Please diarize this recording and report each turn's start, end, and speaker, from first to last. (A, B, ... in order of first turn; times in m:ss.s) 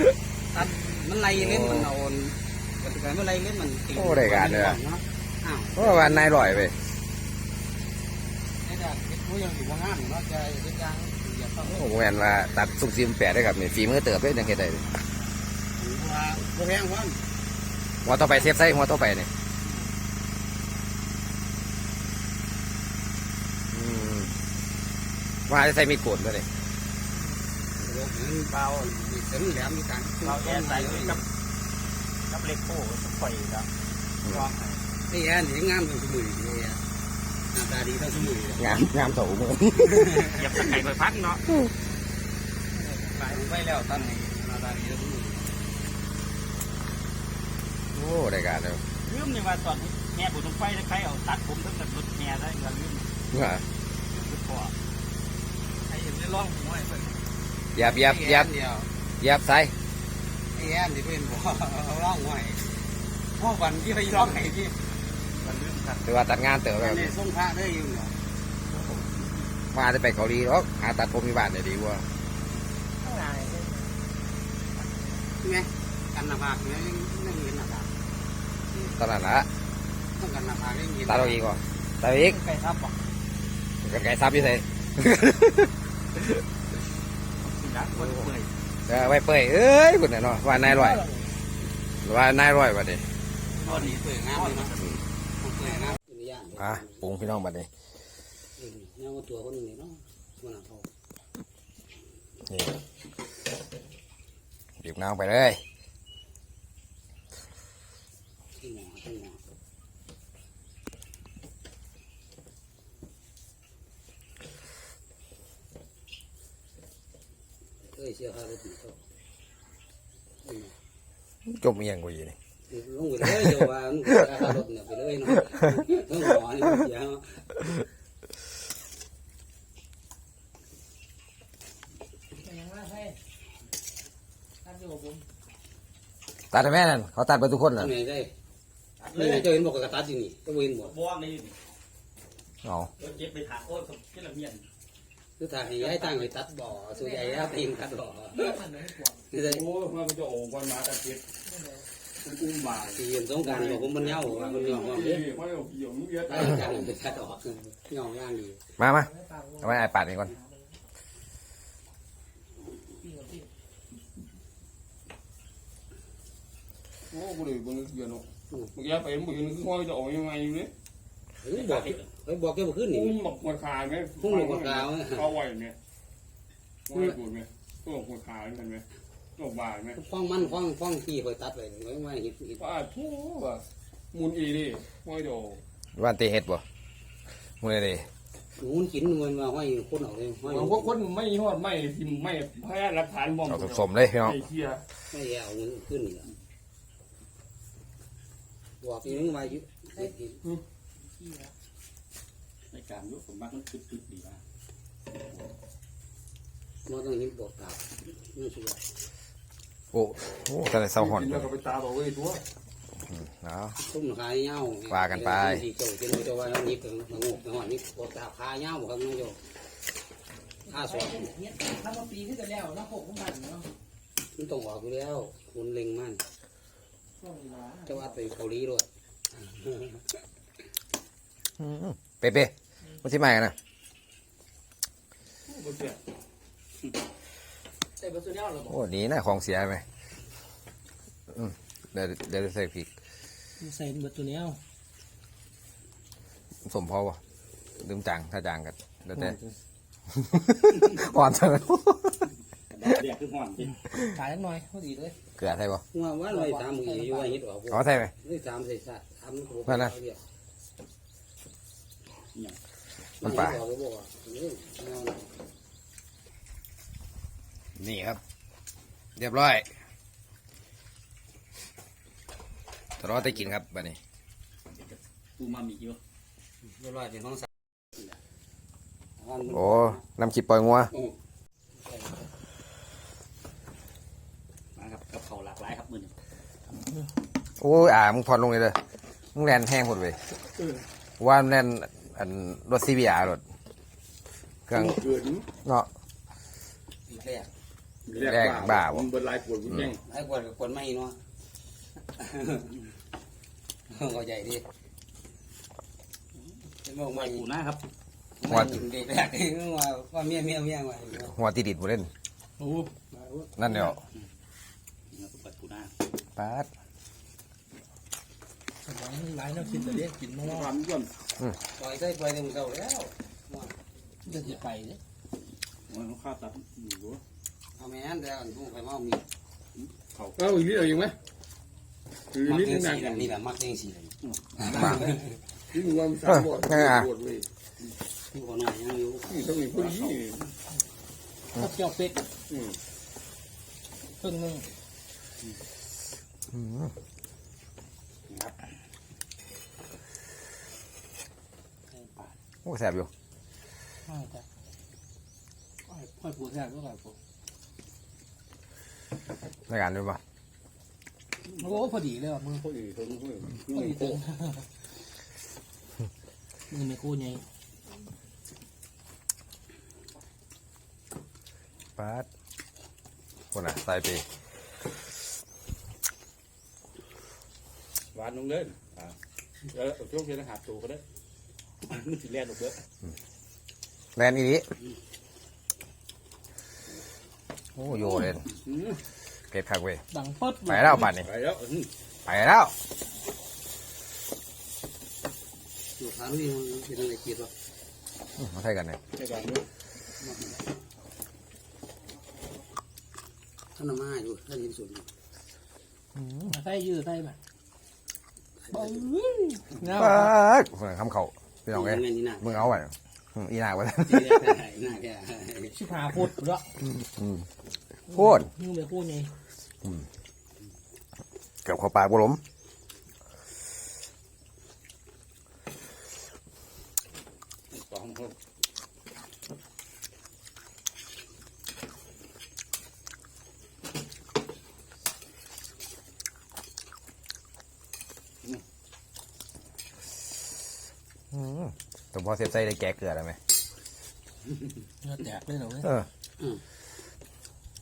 0:00.5-0:06.7 A
0:01.3-0:01.9 B
0:03.9-0:04.8 B
0:05.8-0:06.8 B
0:08.6-0:12.4 A
0:11.6-0:14.9 B
0:15.8-0:17.2 A
0:18.0-0:19.3 B
0:23.7-0:24.4 B
0:25.5-0:26.5 B
0:27.8-0:31.2 A
0:28.5-0:29.0 C
0:30.2-0:31.2 C
0:32.2-0:33.7 C
0:34.2-0:34.9 C
0:34.2-0:34.5 B
0:35.1-0:36.8 A
0:37.5-0:38.8 A
0:38.6-0:40.6 B
0:39.8-0:40.4 A
0:40.4-0:41.4 C
0:42.7-0:43.3 D
0:43.2-0:45.5 A
0:47.9-0:48.8 B
0:49.0-0:53.1 C
0:53.3-0:53.6 B
0:54.1-0:54.7 C
0:55.9-0:57.2 D
0:57.7-0:58.5 B
0:57.8-0:58.9 A
0:59.2-0:59.7 B
1:00.5-1:02.7 A
1:03.4-1:04.7 A
1:05.4-1:06.0 C
1:06.0-1:07.1 B
1:06.8-1:08.1 A
1:09.7-1:12.0 B
1:13.0-1:13.9 D
1:15.4-1:17.9 A
1:19.0-1:19.5 B
1:20.2-1:21.4 A
1:21.1-1:22.4 B
1:22.1-1:22.9 D
1:23.8-1:26.2 B
1:27.4-1:28.5 C
1:28.8-1:31.0 B
1:30.6-1:31.2 D
1:32.0-1:33.0 B
1:33.6-1:35.0 C
1:33.6-1:34.7 A
1:35.4-1:37.1 A
1:36.6-1:37.7 B
1:38.6-1:40.9 A
1:42.4-1:42.8 B
1:44.8-1:45.6 B
1:48.6-1:49.4 A
1:57.9-1:59.0 A
2:00.4-2:00.7 A
2:01.5-2:02.4 B
2:02.7-2:07.5 A
2:12.4-2:13.2 D
2:14.6-2:15.2 D
2:16.5-2:17.9 B
2:17.8-2:18.3 A
2:19.0-2:19.6 C
2:19.1-2:21.0 A
2:20.8-2:21.6 C
2:22.6-2:22.9 B
2:23.0-2:24.6 C
2:25.4-2:28.6 A
2:26.9-2:27.5 D
2:28.3-2:29.3 D
2:29.3-2:29.6 A
2:29.4-2:31.2 E
2:31.4-2:31.8 D
2:32.2-2:36.9 E
2:32.9-2:35.4 A
2:36.2-2:38.6 A
2:38.8-2:40.3 B
2:39.0-2:40.7 D
2:43.0-2:43.5 D
2:47.1-2:50.7 E
2:51.4-2:53.2 A
2:51.5-2:52.0 C
2:52.9-2:55.8 E
2:54.2-2:55.4 A
2:56.9-2:58.8 E
2:59.4-3:00.0 E
2:59.9-3:02.6 A
3:02.6-3:05.6 E
3:06.0-3:06.6 B
3:07.6-3:08.1 B
3:08.6-3:11.0 A
3:10.4-3:14.8 E
3:13.5-3:14.4 B
3:15.1-3:16.3 A
3:18.8-3:20.4 A
3:21.1-3:21.5 D
3:22.7-3:24.4 C
3:26.9-3:28.8 A
3:29.9-3:31.5 B
3:31.0-3:32.4 E
3:33.1-3:33.8 B
3:33.8-3:39.4 A
3:34.9-3:35.6 B
3:40.6-3:43.7 D
3:40.7-3:41.3 A
3:44.3-3:46.2 A
3:47.2-3:48.1 D
3:47.8-3:50.2 A
3:51.6-3:53.5 B
3:55.4-3:56.0 E
3:58.0-3:58.8 D
3:58.6-3:59.8 B
4:01.3-4:02.9 B
4:03.6-4:04.6 D
4:06.6-4:07.2 B
4:07.8-4:09.4 B
4:09.2-4:09.6 D
4:10.1-4:12.3 B
4:12.7-4:13.8 C
4:14.0-4:15.2 D
4:15.4-4:15.8 B
4:15.9-4:20.2 A
4:16.3-4:17.4 D
4:17.7-4:18.1 B
4:19.7-4:19.9 B
4:22.3-4:22.6 C
4:23.2-4:23.6 B
4:23.2-4:25.2 A
4:27.8-4:28.2 B
4:29.2-4:29.7 B
4:33.0-4:34.0 B
4:35.4-4:36.0 C
4:36.6-4:37.5 A
4:39.2-4:40.0 A
4:39.5-4:40.9 B
4:41.8-4:42.2 A
4:44.8-4:46.1 C
4:47.6-4:48.8 B
4:49.3-4:50.2 B
4:51.2-4:53.4 B
4:54.7-4:55.0 B
4:54.7-4:55.5 E
4:55.6-4:55.9 B
4:57.1-4:57.5 A
4:58.0-5:00.0 E
4:58.1-4:59.1 B
5:00.0-5:01.2 A
5:02.2-5:02.8 A
5:03.9-5:04.6 A
5:06.8-5:07.5 A
5:07.1-5:07.8 C
5:08.4-5:11.3 A
5:08.4-5:08.8 B
5:11.2-5:12.1 B
5:12.6-5:13.8 D
5:13.6-5:14.0 B
5:15.1-5:15.9 C
5:16.4-5:16.7 B
5:18.8-5:20.7 D
5:20.4-5:21.1 E
5:20.7-5:21.1 C
5:21.8-5:23.7 A
5:24.2-5:25.0 D
5:25.9-5:27.2 C
5:27.7-5:29.2 A
5:29.8-5:30.4 C
5:30.4-5:31.2 E
5:32.3-5:33.2 E
5:32.4-5:35.4 A
5:34.2-5:35.0 C
5:34.8-5:35.0 B
5:35.7-5:37.5 E
5:36.3-5:37.1 B
5:38.3-5:39.9 A
5:39.3-5:40.4 E
5:41.5-5:42.3 D
5:42.5-5:42.8 E
5:44.2-5:44.7 D
5:46.5-5:46.9 B
5:48.3-5:48.5 C
5:51.9-5:52.3 D
5:52.6-5:53.1 B
5:54.0-5:54.4 D
5:55.9-5:57.2 D
5:59.7-6:00.2 B
6:01.6-6:01.9 C
6:01.6-6:02.7 D
6:02.4-6:04.2 C
6:03.6-6:04.7 D
6:06.7-6:07.4 D
6:12.0-6:12.3 B
6:13.5-6:14.2 B
6:18.1-6:19.1 C
6:19.7-6:21.0 C
6:21.8-6:22.8 C
6:24.2-6:24.7 B
6:27.8-6:28.5 B
6:28.5-6:29.0 C
6:29.5-6:30.0 B
6:30.1-6:31.1 D
6:30.6-6:31.3 B
6:31.2-6:31.9 C
6:32.2-6:32.7 B
6:36.0-6:37.5 A
6:38.4-6:39.0 B
6:39.1-6:39.6 C
6:40.2-6:40.6 A
6:43.8-6:45.0 A
6:46.2-6:46.5 B
6:46.5-6:47.4 D
6:48.7-6:50.3 D
6:48.7-6:49.0 A
6:49.9-6:54.6 B
6:51.7-6:52.7 A
6:54.0-6:55.8 A
6:55.7-6:56.8 D
6:56.8-6:57.5 B
6:58.1-6:58.5 B
6:58.1-6:59.3 D
7:01.6-7:02.4 B
7:07.7-7:08.3 C
7:21.3-7:23.4 B
7:25.0-7:25.9 D
7:25.8-7:26.1 B